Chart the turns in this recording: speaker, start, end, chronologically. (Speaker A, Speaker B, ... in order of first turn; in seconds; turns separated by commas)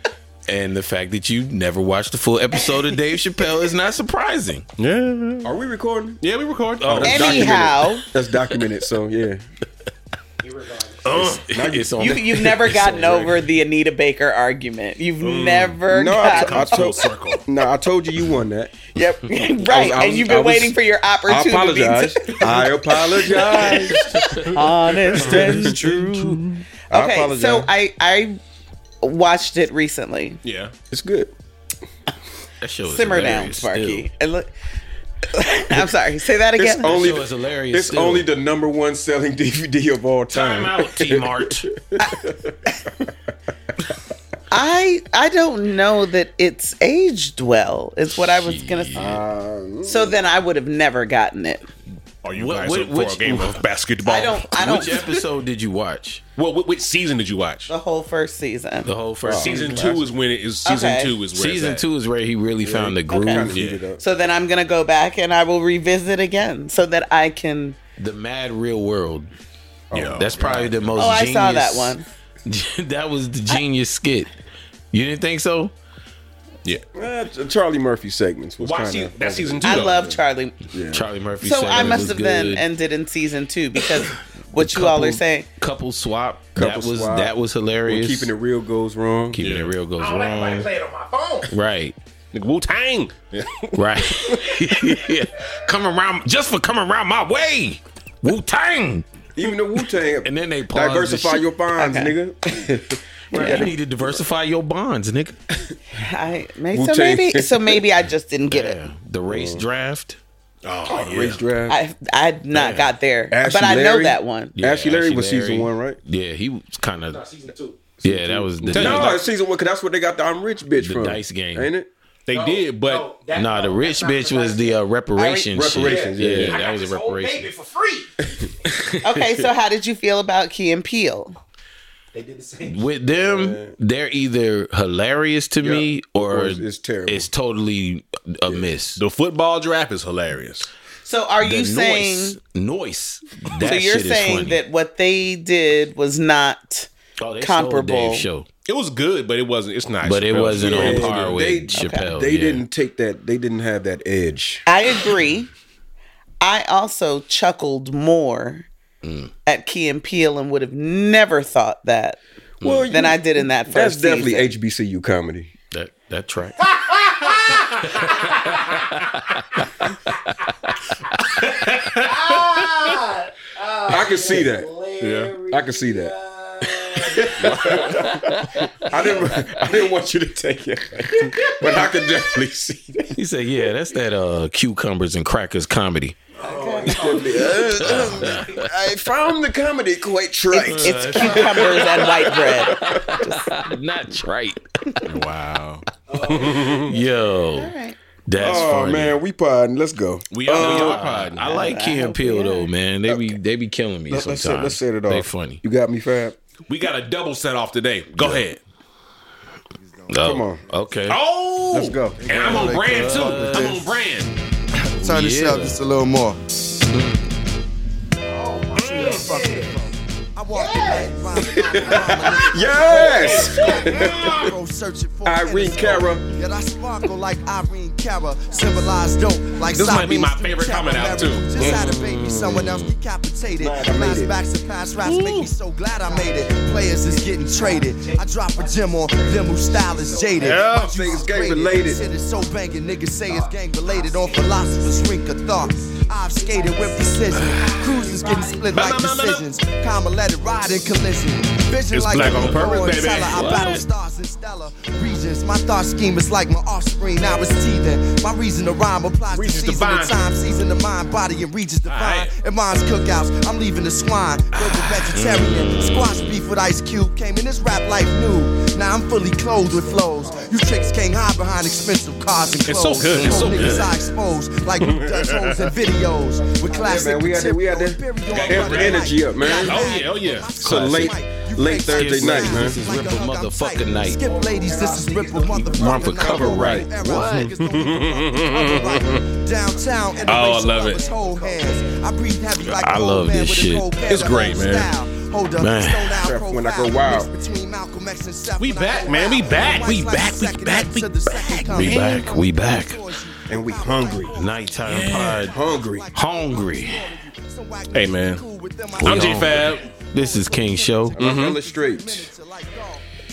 Speaker A: 0.5-4.7, Speaker B: 4.8-5.5, Speaker C: 5.4-6.2, Speaker B: 6.2-7.4, Speaker A: 6.8-7.7, Speaker C: 6.9-9.4, Speaker D: 7.1-8.1, Speaker E: 10.4-11.3, Speaker B: 11.0-11.4, Speaker C: 11.2-12.5, Speaker A: 11.5-13.4, Speaker D: 12.0-17.0, Speaker B: 15.2-17.4, Speaker C: 15.9-18.7, Speaker D: 18.9-28.4, Speaker C: 19.6-24.0, Speaker A: 23.6-24.6, Speaker A: 25.1-25.7, Speaker B: 25.1-26.5, Speaker C: 25.2-25.8, Speaker C: 26.9-27.7, Speaker D: 29.0-30.4, Speaker B: 30.4-30.7, Speaker C: 30.9-31.3, Speaker A: 32.6-34.1, Speaker D: 32.9-34.5, Speaker D: 35.3-37.1, Speaker C: 36.6-43.1, Speaker A: 36.9-38.3, Speaker A: 40.3-41.7, Speaker D: 42.0-42.8, Speaker D: 44.5-49.1, Speaker A: 48.1-49.2, Speaker C: 48.9-50.2, Speaker D: 49.8-51.7, Speaker B: 52.2-54.8, Speaker A: 52.3-53.7, Speaker D: 54.0-55.2, Speaker A: 54.5-56.2, Speaker B: 56.4-57.7, Speaker D: 57.7-58.9, Speaker A: 58.8-60.0, Speaker C: 59.2-60.0, Speaker B: 59.4-61.8, Speaker D: 60.6-61.1, Speaker A: 61.3-63.5, Speaker C: 62.6-64.0, Speaker D: 63.1-67.8, Speaker B: 63.5-63.8, Speaker A: 68.0-69.3, Speaker C: 69.9-71.0, Speaker B: 69.9-70.3, Speaker A: 70.1-74.3, Speaker D: 71.0-72.1, Speaker A: 74.9-75.7, Speaker C: 77.0-80.2, Speaker B: 78.6-80.2, Speaker D: 79.6-80.6, Speaker C: 80.7-81.1, Speaker A: 80.9-82.7, Speaker D: 81.4-85.5, Speaker A: 84.6-88.3, Speaker C: 86.5-89.4, Speaker A: 89.3-90.7, Speaker B: 89.4-89.7, Speaker E: 90.0-91.5, Speaker A: 91.5-92.0, Speaker B: 92.3-93.7, Speaker A: 93.8-99.0, Speaker C: 99.3-104.2, Speaker A: 100.2-101.5, Speaker D: 101.8-102.1, Speaker A: 103.3-105.4, Speaker D: 103.3-103.7, Speaker D: 106.0-108.8, Speaker C: 106.7-107.8, Speaker A: 108.5-110.2, Speaker C: 109.3-109.7, Speaker B: 110.6-111.4, Speaker C: 110.9-111.8, Speaker D: 111.7-114.5, Speaker A: 112.5-112.9, Speaker C: 113.3-116.0, Speaker A: 114.5-117.2, Speaker E: 117.1-118.0, Speaker A: 118.0-119.2, Speaker C: 118.0-121.9, Speaker B: 118.6-119.3, Speaker A: 120.8-121.7, Speaker B: 122.3-123.1, Speaker E: 122.3-124.8, Speaker A: 123.3-127.5, Speaker D: 125.2-125.5, Speaker C: 125.5-126.6, Speaker E: 125.8-128.2, Speaker A: 128.7-129.0, Speaker D: 129.0-131.4, Speaker E: 132.1-133.0, Speaker A: 132.7-139.0, Speaker C: 133.2-133.8, Speaker C: 135.6-137.3, Speaker B: 139.0-140.7, Speaker D: 141.0-142.4, Speaker A: 141.4-144.6, Speaker D: 143.6-146.9, Speaker A: 147.2-148.5, Speaker D: 147.4-148.3, Speaker B: 148.7-151.2, Speaker A: 150.0-152.6, Speaker C: 150.6-154.7, Speaker D: 151.8-152.1, Speaker D: 154.7-155.5, Speaker D: 156.4-158.7, Speaker A: 159.0-159.3, Speaker D: 159.5-162.2, Speaker A: 162.6-162.9, Speaker C: 162.6-165.5, Speaker D: 162.9-164.5, Speaker A: 165.7-166.7, Speaker E: 166.6-168.8, Speaker A: 167.9-170.5, Speaker E: 171.9-179.7, Speaker C: 173.8-174.7, Speaker B: 175.0-175.3, Speaker C: 175.4-176.1, Speaker A: 176.8-178.5, Speaker C: 177.1-183.2, Speaker A: 183.1-186.2, Speaker E: 186.4-188.6, Speaker D: 186.4-187.0, Speaker C: 186.8-191.3, Speaker A: 187.4-188.6, Speaker A: 190.5-194.6, Speaker D: 190.8-192.8, Speaker E: 191.3-191.6, Speaker B: 195.0-196.9, Speaker E: 196.1-197.0, Speaker A: 196.8-197.7, Speaker D: 197.5-198.0, Speaker A: 198.3-199.2, Speaker C: 198.4-201.0, Speaker B: 200.3-201.5, Speaker A: 200.6-205.6, Speaker D: 201.3-202.7, Speaker C: 203.1-203.4, Speaker C: 204.1-206.4, Speaker B: 206.7-208.6, Speaker A: 208.2-208.4, Speaker A: 210.1-211.2, Speaker C: 210.2-210.6, Speaker B: 211.1-214.3, Speaker C: 211.7-212.2, Speaker F: 212.3-213.9, Speaker A: 212.3-213.8, Speaker F: 214.8-216.4, Speaker A: 215.0-215.8, Speaker A: 216.9-217.3, Speaker E: 218.3-219.9, Speaker B: 218.8-219.4, Speaker F: 218.8-313.0, Speaker E: 220.5-222.3, Speaker C: 221.4-224.3, Speaker E: 222.9-224.1, Speaker B: 222.9-224.5, Speaker C: 225.2-226.2, Speaker B: 229.6-231.8, Speaker A: 231.6-233.0, Speaker C: 233.6-234.3, Speaker B: 235.0-235.5, Speaker E: 235.9-248.9, Speaker C: 240.4-242.0, Speaker B: 247.3-247.8, Speaker B: 248.7-249.4, Speaker E: 250.5-250.8, Speaker B: 251.9-253.8, Speaker A: 252.1-252.7, Speaker A: 253.2-253.8, Speaker B: 259.3-260.2, Speaker B: 261.9-262.3, Speaker B: 264.5-265.1, Speaker A: 265.1-266.4, Speaker E: 269.7-270.9, Speaker B: 272.6-273.9, Speaker A: 273.1-273.9, Speaker E: 274.6-274.9, Speaker B: 274.8-275.7, Speaker E: 275.5-277.2, Speaker C: 276.8-279.9, Speaker A: 278.3-279.0, Speaker B: 278.3-281.1, Speaker C: 280.6-282.8, Speaker A: 281.9-284.2, Speaker E: 284.2-286.4, Speaker A: 285.5-287.5, Speaker C: 286.3-286.9, Speaker B: 286.4-289.2, Speaker E: 289.7-292.0, Speaker B: 290.2-291.0, Speaker A: 292.6-293.9, Speaker B: 294.1-294.9, Speaker A: 295.6-296.2, Speaker C: 296.2-297.3, Speaker B: 298.6-302.3, Speaker E: 298.8-300.1, Speaker A: 301.7-303.0, Speaker C: 303.5-304.3, Speaker A: 304.3-305.6, Speaker B: 304.9-305.4, Speaker C: 305.5-306.1, Speaker A: 306.1-307.2, Speaker B: 307.9-308.4, Speaker A: 309.0-311.1, Speaker B: 309.0-309.8, Speaker C: 311.2-312.3, Speaker B: 311.2-311.6